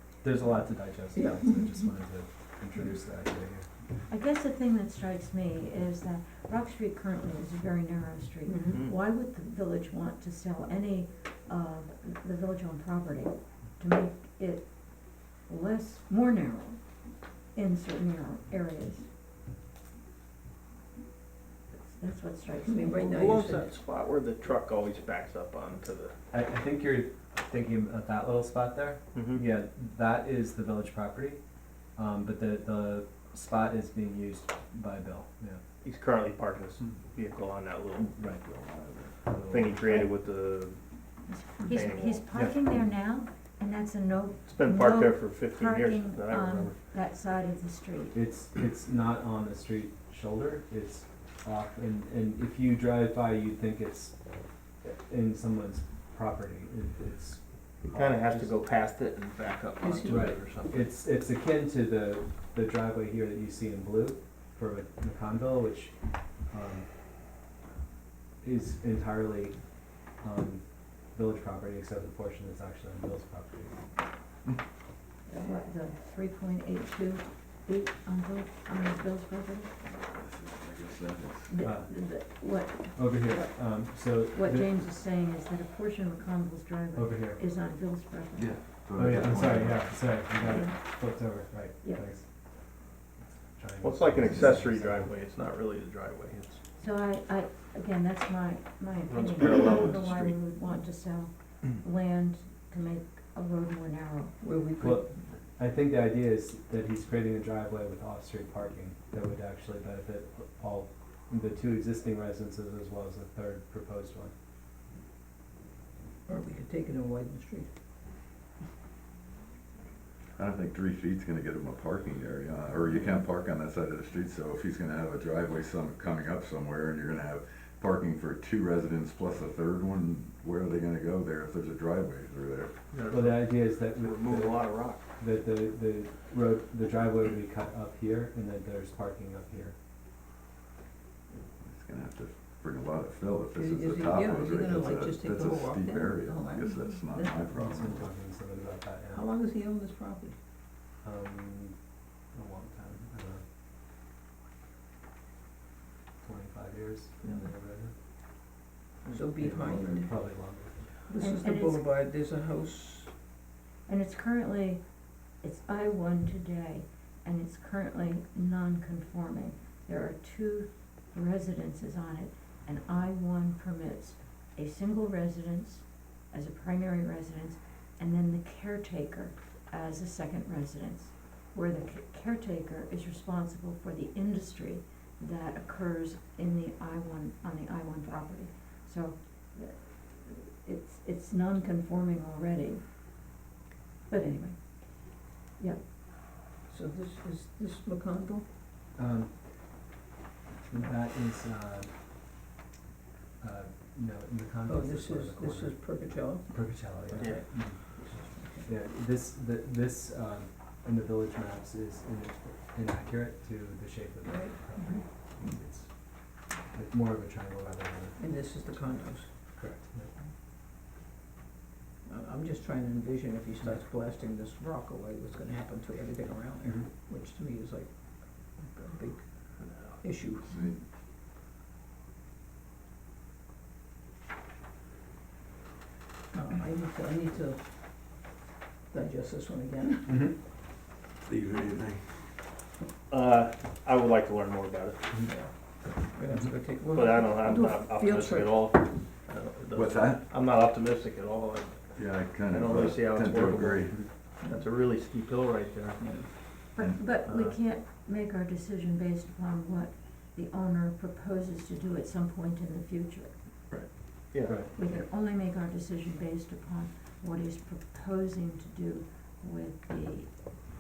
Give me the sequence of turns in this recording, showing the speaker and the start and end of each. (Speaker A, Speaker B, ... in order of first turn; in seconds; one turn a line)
Speaker A: 0.2-3.7
Speaker B: 1.1-1.9
Speaker C: 4.1-14.7
Speaker B: 8.5-8.8
Speaker D: 8.6-8.9
Speaker C: 15.4-16.8
Speaker C: 17.5-19.1
Speaker C: 21.8-23.2
Speaker B: 22.5-23.8
Speaker D: 23.1-26.1
Speaker A: 26.3-31.4
Speaker D: 29.1-29.4
Speaker A: 32.0-35.6
Speaker D: 35.8-38.1
Speaker A: 38.0-39.8
Speaker D: 39.4-40.8
Speaker C: 41.3-48.1
Speaker D: 41.6-42.4
Speaker D: 44.5-46.9
Speaker A: 48.1-54.2
Speaker A: 54.8-58.5
Speaker D: 57.9-60.8
Speaker B: 59.8-60.6
Speaker A: 60.1-66.9
Speaker A: 68.4-69.6
Speaker A: 70.2-73.8
Speaker C: 75.3-79.7
Speaker E: 80.0-81.5
Speaker C: 81.5-83.5
Speaker A: 81.6-81.9
Speaker A: 83.0-84.7
Speaker C: 84.3-88.5
Speaker A: 87.0-87.4
Speaker E: 88.4-90.6
Speaker A: 88.9-92.3
Speaker A: 93.5-95.1
Speaker D: 93.8-96.6
Speaker C: 96.8-104.4
Speaker D: 99.1-100.4
Speaker B: 104.4-105.2
Speaker A: 104.8-114.3
Speaker B: 116.3-117.7
Speaker E: 120.4-132.7
Speaker D: 132.9-135.1
Speaker A: 133.1-139.8
Speaker E: 141.6-148.1
Speaker B: 143.5-147.4
Speaker A: 147.5-149.3
Speaker B: 149.1-150.3
Speaker A: 151.0-151.8
Speaker A: 152.3-153.4
Speaker A: 156.2-157.9
Speaker B: 159.1-160.1
Speaker A: 159.4-161.1
Speaker B: 161.0-163.1
Speaker C: 161.2-161.8
Speaker C: 163.8-164.8
Speaker C: 165.4-192.8
Speaker C: 194.1-194.6
Speaker B: 196.7-198.4
Speaker A: 198.9-199.4
Speaker A: 200.7-201.9
Speaker A: 203.4-207.8
Speaker B: 204.7-208.7
Speaker A: 208.6-215.9
Speaker B: 214.2-215.0
Speaker A: 216.7-218.3
Speaker B: 218.2-219.3
Speaker A: 219.6-220.1
Speaker B: 222.1-227.9
Speaker B: 228.7-229.2
Speaker B: 230.0-230.7
Speaker E: 230.4-230.8
Speaker B: 236.3-237.6
Speaker B: 238.9-240.3
Speaker A: 240.1-240.3
Speaker E: 241.2-242.0
Speaker D: 243.1-245.0
Speaker B: 246.0-248.7
Speaker D: 246.9-251.8
Speaker E: 249.7-250.2
Speaker E: 251.9-253.9
Speaker D: 252.4-256.0
Speaker B: 256.0-256.3
Speaker C: 256.7-263.3
Speaker D: 257.2-257.6
Speaker D: 264.3-265.0
Speaker A: 264.4-264.7
Speaker C: 264.8-270.3